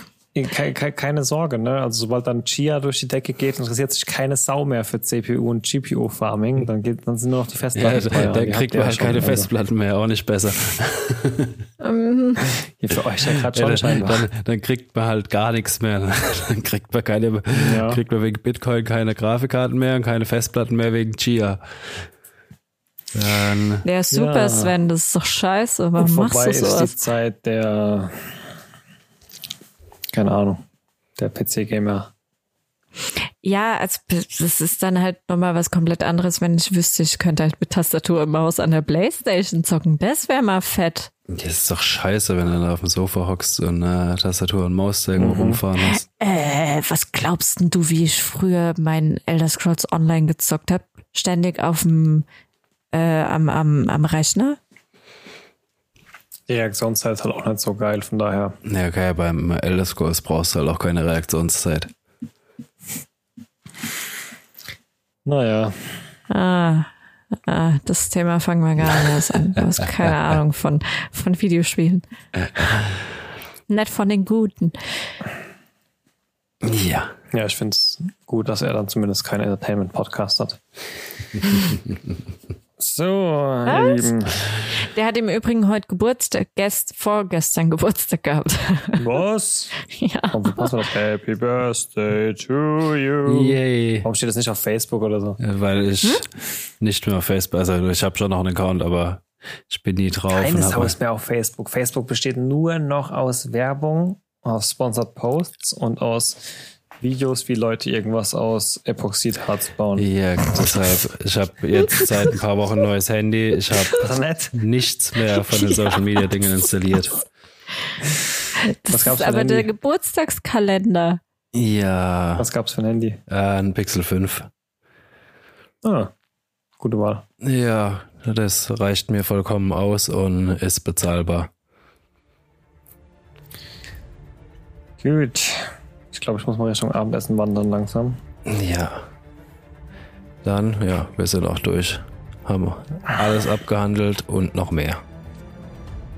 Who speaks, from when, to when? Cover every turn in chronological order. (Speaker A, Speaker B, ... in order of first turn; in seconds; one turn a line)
Speaker A: 0.3-9.5
Speaker B: 7.8-11.6
Speaker C: 11.8-12.5
Speaker A: 12.5-14.2
Speaker B: 13.2-22.1
Speaker A: 17.5-18.0
Speaker B: 23.1-23.9
Speaker C: 23.9-26.9
Speaker A: 24.1-24.7
Speaker A: 26.0-28.4
Speaker A: 30.1-30.6
Speaker A: 31.2-32.1
Speaker C: 33.4-41.1
Speaker B: 41.3-46.0
Speaker A: 45.2-45.6
Speaker C: 45.8-52.2
Speaker C: 52.9-54.6
Speaker A: 56.5-58.6
Speaker B: 58.6-61.9
Speaker A: 65.2-66.1
Speaker C: 66.3-66.9
Speaker C: 67.4-72.0
Speaker B: 69.6-70.1
Speaker C: 73.7-75.0
Speaker B: 76.6-77.1
Speaker A: 77.3-80.6
Speaker A: 82.8-84.4
Speaker C: 83.7-84.1
Speaker C: 84.6-89.1
Speaker A: 89.0-89.7
Speaker C: 89.9-90.8
Speaker A: 90.3-95.4
Speaker B: 93.3-94.1
Speaker B: 95.4-96.3
Speaker B: 96.8-101.0
Speaker A: 100.3-110.1
Speaker B: 110.0-117.2
Speaker A: 113.9-114.5
Speaker C: 115.5-116.0
Speaker C: 118.6-121.2
Speaker A: 118.9-119.7
Speaker B: 121.5-122.5
Speaker A: 122.4-123.2
Speaker B: 123.3-124.5
Speaker A: 125.8-126.1
Speaker A: 126.8-127.2
Speaker B: 127.4-131.5
Speaker A: 135.0-138.2
Speaker B: 138.5-139.1
Speaker B: 140.4-145.0